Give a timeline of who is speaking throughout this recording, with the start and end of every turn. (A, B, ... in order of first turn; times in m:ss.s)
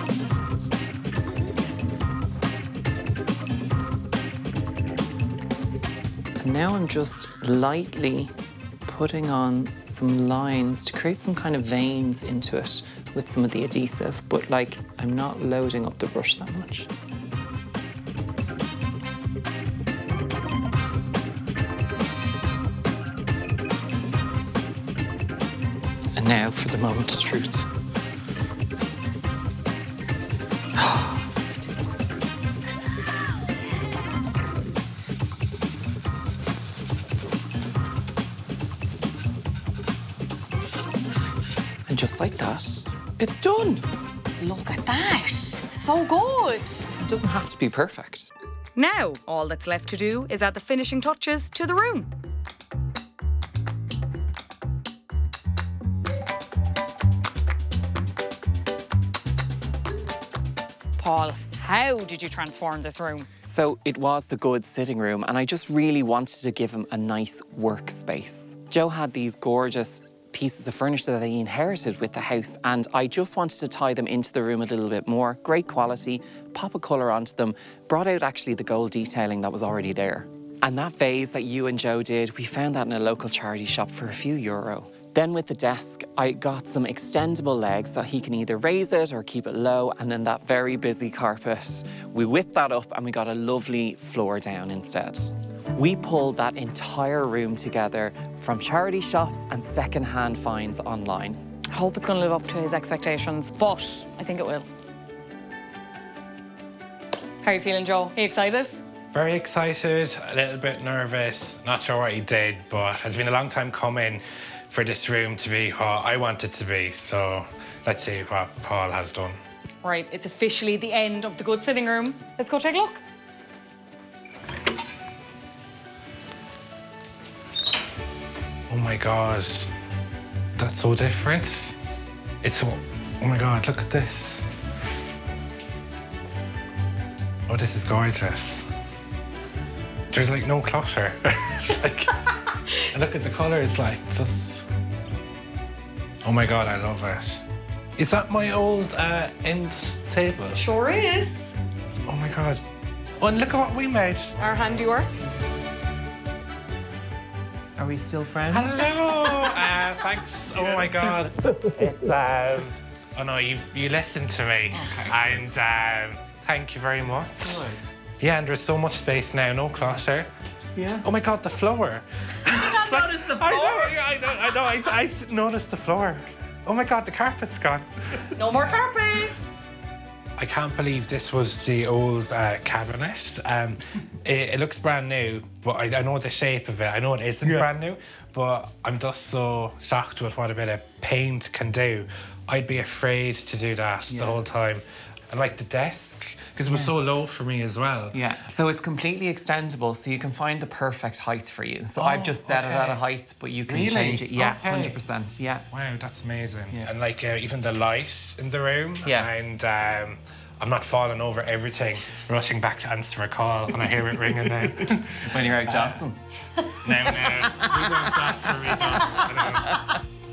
0:06.4-0:08.3 A
0:08.8-0:16.9 A
0:26.2-0:27.7 A
0:30.8-0:31.1 A
0:41.9-0:43.8 A
0:44.4-0:46.9 B
0:47.0-0:48.3 A
0:48.8-0:52.1 B
1:01.0-1:03.3 B
1:03.5-1:41.4 A
1:41.7-1:44.7 B
1:47.4-1:48.8 B
1:49.1-1:59.4 C
1:59.8-2:03.0 B
2:08.7-2:09.7 C
2:10.6-2:11.8 C
2:12.4-2:14.4 C
2:17.5-2:18.6 C
2:20.1-2:24.6 C
2:26.2-2:27.4 C
2:28.0-2:30.6 C
2:30.6-2:31.6 B
2:32.1-2:32.6 C
2:33.2-2:34.4 C
2:34.4-2:35.1 B
2:37.8-2:39.7 A
2:38.5-2:47.6 C
2:44.7-2:45.5 A
2:47.4-2:47.9 A
2:48.2-2:50.3 C
2:50.8-2:51.0 A
2:51.0-2:58.2 C
2:52.9-2:53.8 A
2:58.3-2:59.4 B
3:00.4-3:18.2 C
3:14.1-3:14.4 A
3:18.1-3:25.7 A
3:22.0-3:23.0 C
3:23.7-3:25.0 C
3:25.7-3:36.0 C
3:29.0-3:29.3 A
3:35.0-3:38.3 A
3:36.8-3:39.9 C
3:38.9-3:40.0 A